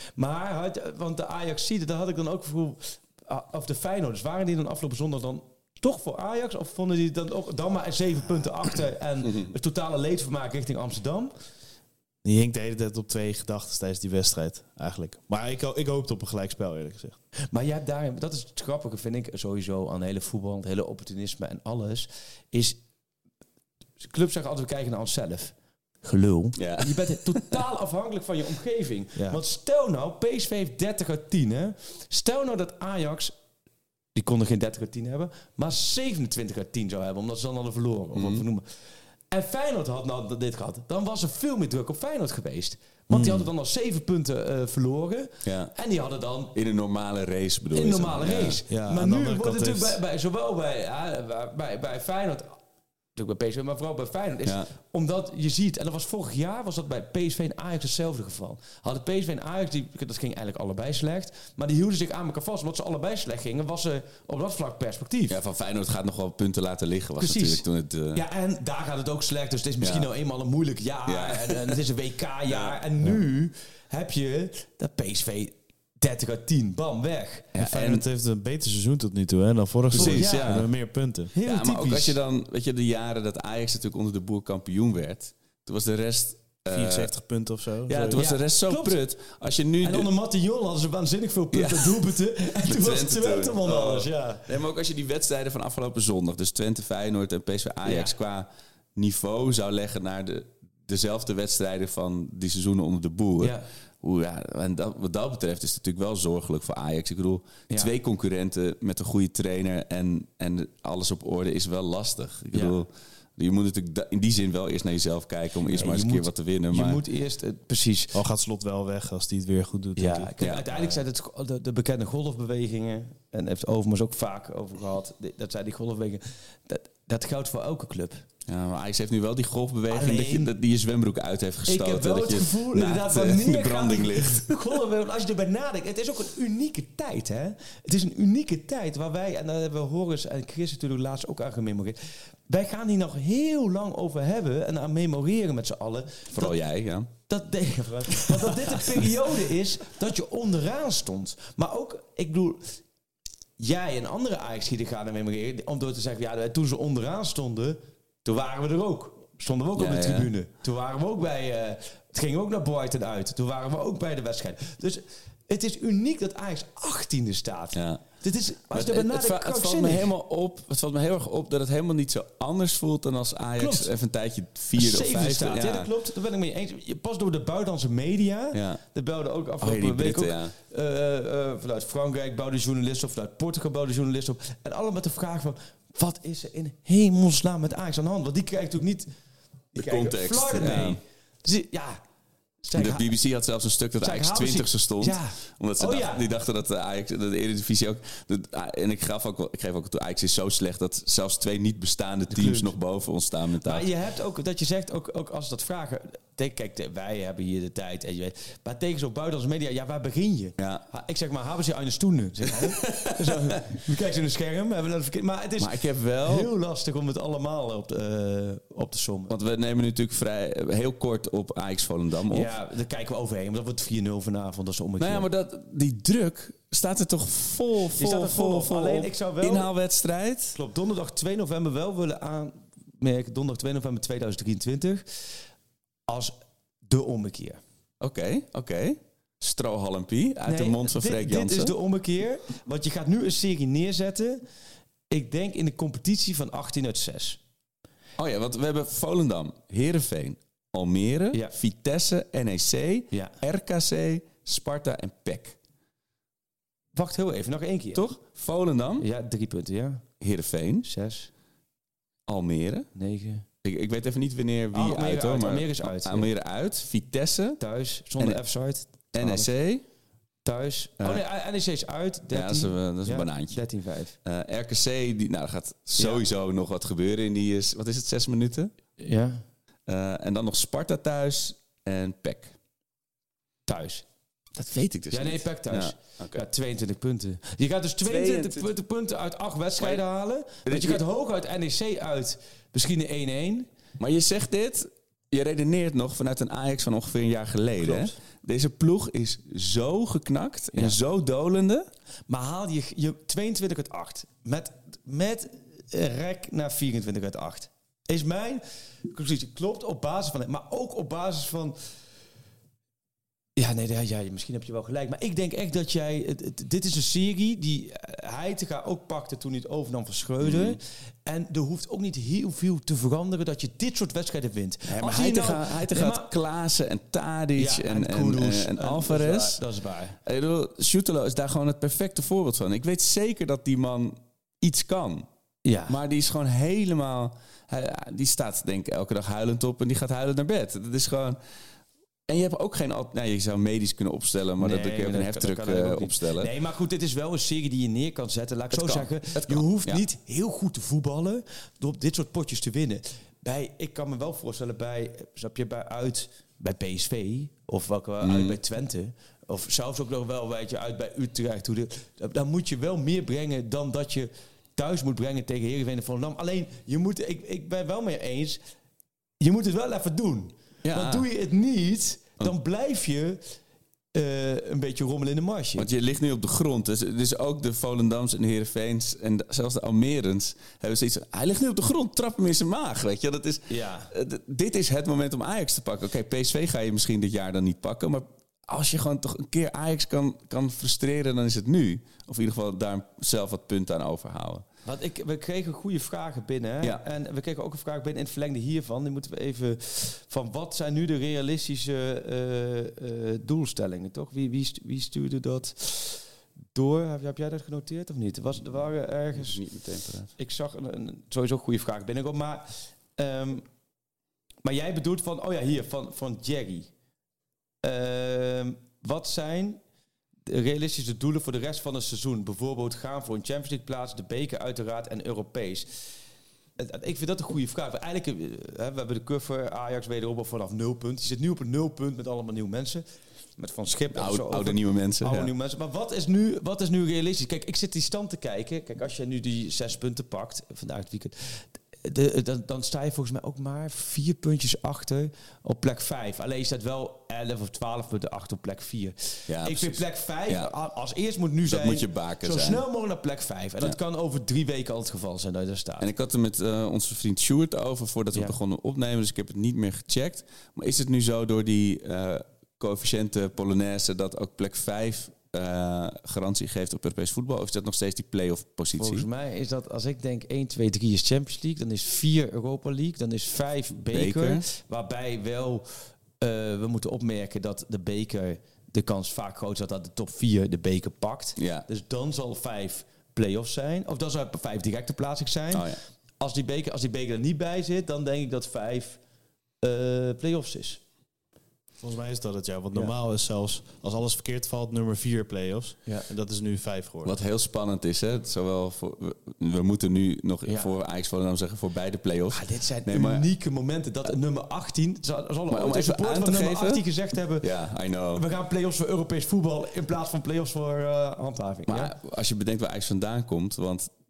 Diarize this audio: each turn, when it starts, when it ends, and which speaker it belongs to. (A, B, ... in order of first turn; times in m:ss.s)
0:00.2-0:11.3 A
0:09.2-0:09.5 B
0:12.2-0:17.2 C
0:17.5-0:22.8 A
0:24.0-0:33.3 A
0:26.6-0:27.6 B
0:34.2-0:38.6 A
0:38.1-0:38.4 B
0:39.3-0:46.5 A
0:43.1-0:43.5 C
0:45.4-0:45.7 B
0:46.5-0:48.6 B
0:47.7-0:52.6 A
0:48.7-0:50.0 C
0:53.2-1:05.4 A
0:54.4-0:54.7 B
1:05.3-1:08.2 B
1:07.2-1:17.6 A
1:09.8-1:10.1 B
1:11.1-1:11.8 B
1:12.5-1:12.8 B
1:17.5-1:18.0 B
1:17.6-1:21.3 C
1:19.9-1:20.7 B
1:19.9-1:20.7 A
1:21.3-1:22.2 A
1:21.4-1:27.2 B
1:26.7-1:28.2 C
1:27.9-1:30.1 B
1:28.2-1:29.0 A
1:29.8-1:34.4 A
1:31.5-1:57.0 B
1:37.8-1:38.1 A
1:43.4-1:43.6 A
1:47.7-1:47.9 A
1:52.5-1:52.8 A
1:55.7-1:58.2 A
1:58.2-2:00.3 C
2:00.0-2:08.2 A
2:00.4-2:00.7 B
2:08.5-2:14.8 B
2:09.9-2:10.5 A
2:11.7-2:22.0 A
2:22.5-2:26.6 A
2:26.3-2:27.1 B
2:27.3-2:32.6 A
2:33.6-2:50.1 A
2:39.8-2:40.3 B
2:47.7-2:48.0 B
2:48.7-2:55.9 B
2:53.6-2:53.9 A
2:54.8-3:09.1 A
2:58.5-2:58.8 B
2:59.6-3:00.5 B
3:09.7-3:12.0 A
3:09.8-3:11.0 B
3:12.6-3:13.1 A
3:12.7-3:23.9 B
3:14.0-3:16.2 A
3:22.3-3:22.8 A
3:23.6-3:39.3 A
3:30.6-3:30.8 B
3:32.8-3:33.3 B
3:35.6-3:36.5 B
3:39.3-3:42.5 B
3:42.3-3:45.3 A
3:45.0-3:50.6 B
3:48.0-3:49.7 A
3:50.5-3:55.0 A
3:56.1-3:56.4 A
3:56.9-3:57.6 A
3:58.0-4:01.8 B
4:00.5-4:04.4 A
4:05.1-4:07.4 A
4:08.2-4:15.6 B
4:17.0-4:18.1 A
4:17.9-4:19.1 B
4:19.0-4:20.0 A
4:20.2-4:20.9 B
4:20.8-4:21.3 A
4:22.3-4:22.9 B
4:23.0-4:23.4 A
4:23.6-4:27.6 B
4:24.7-4:26.3 A
4:27.6-4:29.5 A
4:28.2-4:28.4 B
4:29.1-4:29.8 B
4:30.4-4:34.2 A
4:32.3-4:33.6 B
4:34.2-4:38.7 B
4:39.0-4:39.4 A
4:39.9-4:42.5 B
4:43.7-4:44.0 A
4:44.6-4:46.4 B
4:45.1-4:53.7 A
4:48.0-4:48.7 B
4:49.8-4:50.0 B
4:50.6-4:51.0 B
4:54.0-5:01.9 B
4:57.8-4:58.2 A
5:02.3-5:11.8 A
5:13.6-5:26.3 A
5:20.4-5:20.8 B
5:24.9-5:29.6 B
5:27.6-5:30.2 A
5:30.2-5:35.3 B
5:35.6-5:36.0 A
5:35.9-5:41.4 B
5:42.3-5:46.5 B
5:44.6-6:08.6 A
5:48.7-5:50.0 B
5:58.2-5:58.6 B
6:09.4-6:13.4 A
6:10.8-6:11.3 B
6:14.2-6:15.9 A
6:15.8-6:34.6 B
6:23.7-6:24.1 A
6:34.9-6:46.2 A
6:46.7-6:49.6 A
6:49.3-6:50.4 B
6:50.4-6:53.6 A
6:54.6-6:56.9 A
6:57.8-6:59.8 A
7:00.5-7:05.9 A
7:06.8-7:13.0 A
7:13.6-7:36.1 A
7:14.1-7:15.5 B
7:29.5-7:30.7 B
7:31.6-7:32.8 B
7:36.0-7:49.3 B
7:49.0-7:55.9 A
7:54.1-7:54.7 B
7:56.4-8:05.9 A
8:01.6-8:01.9 B
8:05.7-8:06.0 B
8:06.4-8:09.2 A
8:09.8-8:11.0 A
8:12.0-8:17.3 C
8:17.2-8:23.5 B
8:20.6-8:20.9 A
8:22.5-8:27.7 A
8:25.7-8:27.0 B
8:27.6-8:28.4 B
8:28.3-8:32.2 A
8:31.9-8:34.1 B